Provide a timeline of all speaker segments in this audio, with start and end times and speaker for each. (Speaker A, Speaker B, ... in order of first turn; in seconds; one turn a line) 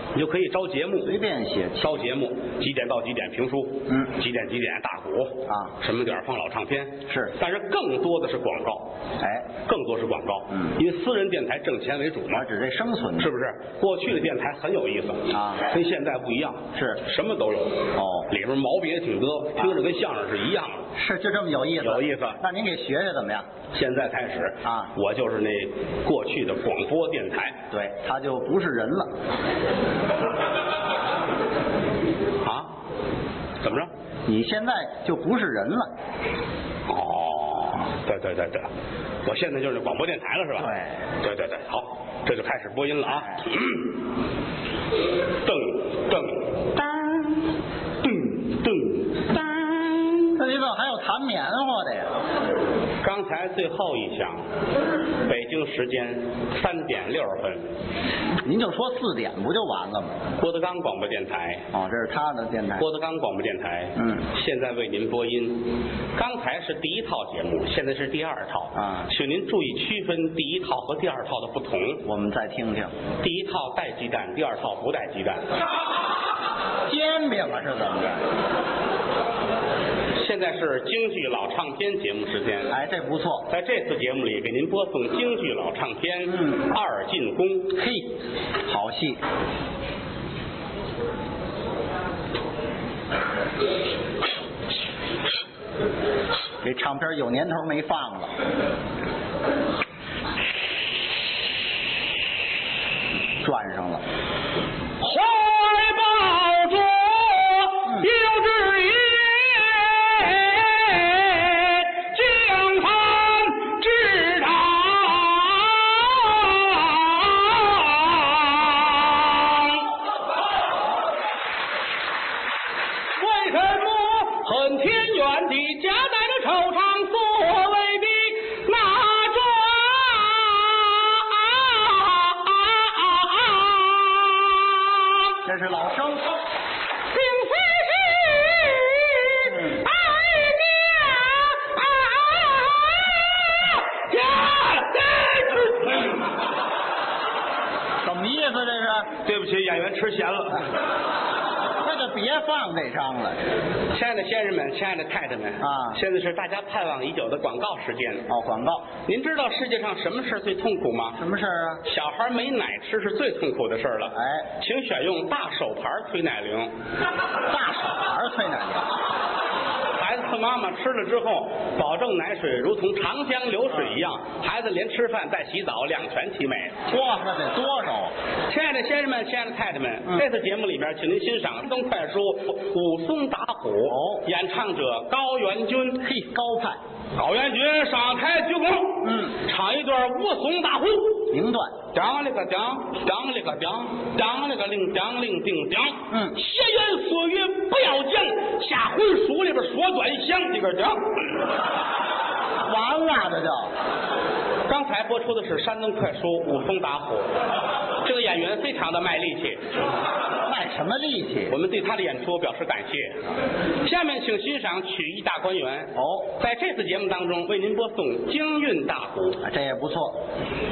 Speaker A: 0.1-1.1
Speaker B: 1.0-2.0
Speaker A: 1.8-8.9
Speaker B: 5.5-5.7
Speaker B: 7.1-7.3
Speaker B: 9.2-9.5
Speaker A: 9.7-12.5
Speaker B: 12.3-13.3
Speaker A: 13.2-20.9
Speaker B: 15.3-15.6
Speaker B: 16.8-17.0
Speaker B: 18.0-18.3
Speaker B: 21.0-23.5
Speaker A: 21.8-22.4
Speaker A: 23.7-27.6
Speaker B: 24.6-24.9
Speaker B: 27.7-29.1
Speaker A: 32.4-32.7
Speaker A: 33.6-33.9
Speaker B: 34.3-35.9
Speaker A: 36.9-38.7
Speaker A: 39.2-43.9
Speaker B: 40.6-40.9
Speaker A: 45.4-47.4
Speaker A: 48.0-50.4
Speaker B: 50.4-52.1
Speaker A: 53.0-54.4
Speaker A: 55.3-57.6
Speaker B: 58.4-60.2
Speaker A: 60.4-61.6
Speaker B: 61.7-62.9
Speaker A: 62.8-65.6
Speaker B: 64.0-64.2
Speaker A: 66.2-72.0
Speaker B: 68.8-69.1
Speaker B: 72.0-72.9
Speaker A: 73.2-75.5
Speaker B: 76.9-78.3
Speaker A: 80.2-82.7
Speaker B: 82.7-83.5
Speaker A: 83.5-87.8
Speaker B: 87.8-88.1
Speaker B: 88.7-89.2
Speaker B: 96.6-98.3
Speaker B: 103.4-104.0
Speaker A: 105.0-119.9
Speaker A: 123.2-135.3
Speaker B: 135.4-136.3
Speaker A: 137.1-146.2
Speaker B: 148.0-149.1
Speaker A: 149.2-150.7
Speaker B: 151.8-153.4
Speaker A: 153.9-158.3
Speaker B: 155.6-156.0
Speaker B: 158.3-158.9
Speaker A: 159.1-161.2
Speaker B: 161.2-161.8
Speaker A: 161.8-166.7
Speaker B: 164.2-164.5
Speaker B: 167.5-169.0
Speaker A: 170.0-176.8
Speaker B: 176.9-178.1
Speaker A: 178.5-186.0
Speaker B: 183.9-184.2
Speaker B: 186.0-186.8
Speaker A: 187.2-191.3
Speaker B: 189.0-189.3
Speaker B: 191.3-191.7
Speaker A: 191.9-201.0
Speaker B: 202.7-203.7
Speaker A: 204.7-207.3
Speaker A: 208.0-209.7
Speaker B: 210.5-211.6
Speaker A: 211.5-213.2
Speaker A: 213.8-219.4
Speaker B: 216.0-216.3
Speaker B: 219.4-220.2